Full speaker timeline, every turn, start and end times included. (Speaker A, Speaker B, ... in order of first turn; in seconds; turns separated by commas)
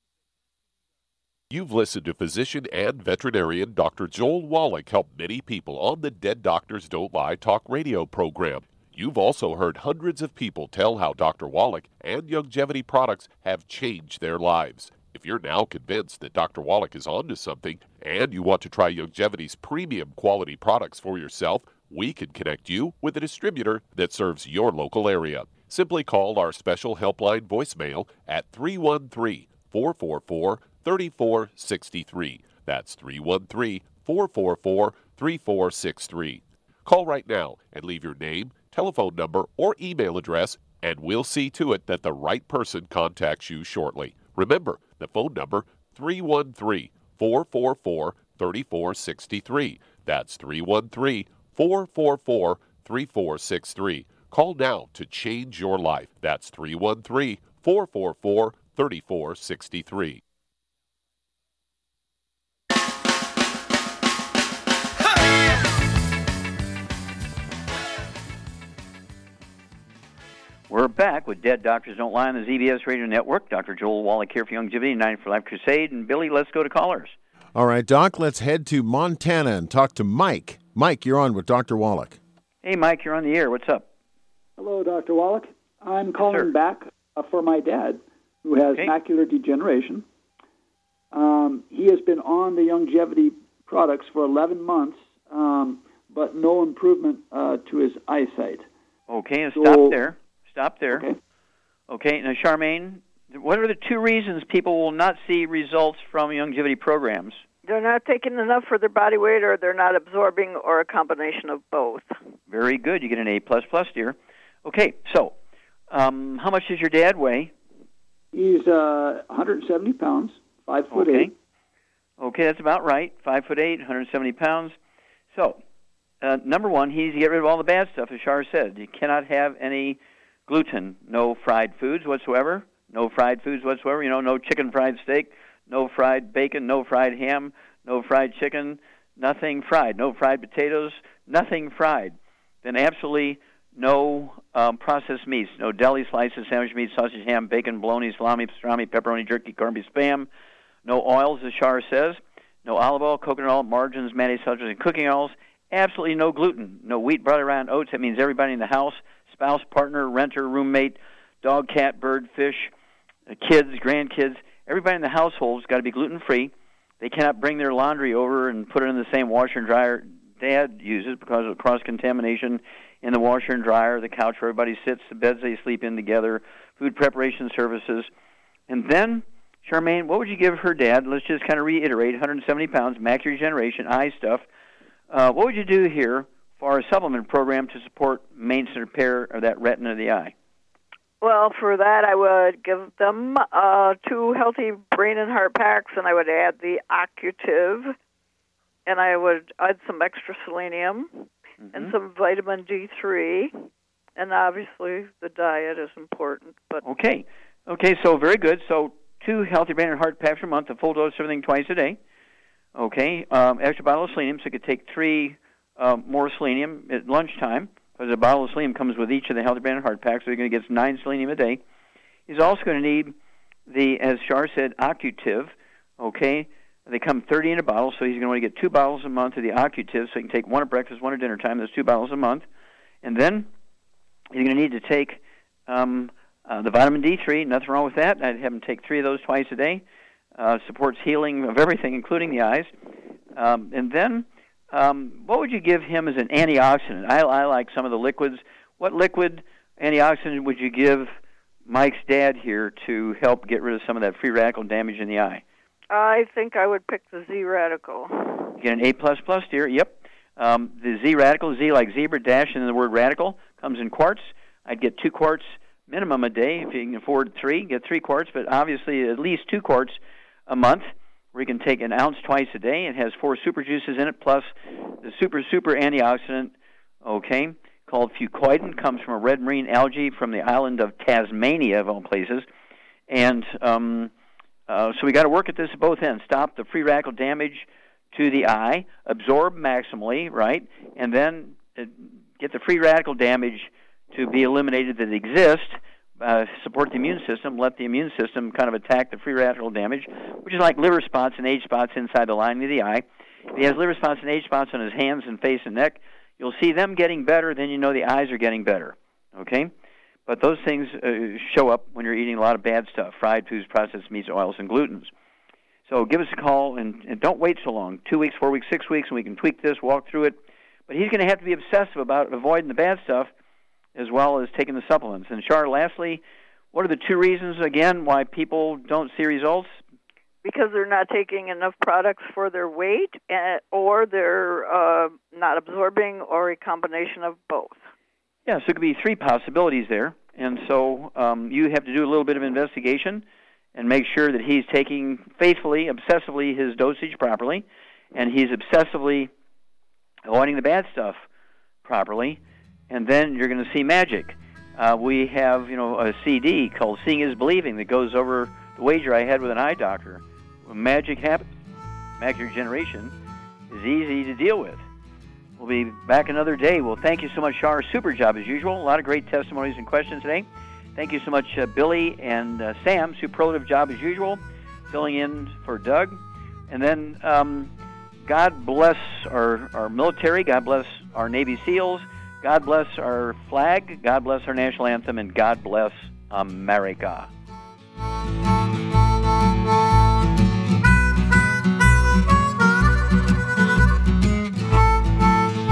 Speaker A: 1.5-60.2, Speaker B: 70.7-77.1, Speaker C: 77.5-82.2, Speaker B: 82.6-83.8, Speaker D: 84.6-90.0, Speaker B: 86.2-86.5, Speaker D: 91.1-98.7, Speaker B: 99.1-101.1, Speaker D: 99.5-100.0, Speaker D: 100.9-101.2, Speaker B: 101.9-107.4, Speaker E: 107.6-112.1, Speaker B: 112.5-115.3, Speaker B: 115.9-117.5, Speaker D: 118.3-121.3, Speaker B: 120.9-121.3, Speaker B: 122.2-124.7, Speaker B: 125.3-125.6, Speaker B: 126.2-150.3, Speaker B: 150.8-162.7, Speaker B: 163.3-178.1, Speaker B: 178.7-184.4, Speaker B: 185.1-190.3, Speaker E: 191.2-197.9, Speaker E: 198.8-203.5, Speaker B: 201.6-201.9, Speaker E: 204.2-206.8, Speaker B: 206.8-212.0, Speaker B: 212.7-221.6, Speaker B: 222.3-223.1, Speaker B: 223.7-232.4, Speaker B: 233.0-233.5, Speaker B: 234.3-239.8, Speaker B: 240.4-242.7, Speaker B: 243.3-251.1, Speaker B: 251.7-255.4, Speaker E: 255.9-258.5, Speaker B: 258.6-274.5, Speaker B: 275.0-282.4, Speaker B: 283.1-284.1, Speaker B: 284.7-309.7, Speaker B: 310.3-315.1, Speaker B: 315.9-320.4, Speaker B: 320.9-323.3, Speaker B: 323.9-326.2, Speaker B: 326.7-329.8, Speaker E: 330.4-337.8, Speaker B: 338.4-343.2, Speaker B: 343.8-349.3, Speaker B: 350.2-351.2, Speaker B: 351.8-361.5, Speaker B: 362.2-363.1, Speaker B: 363.7-364.8, Speaker B: 365.6-377.7, Speaker B: 378.2-387.3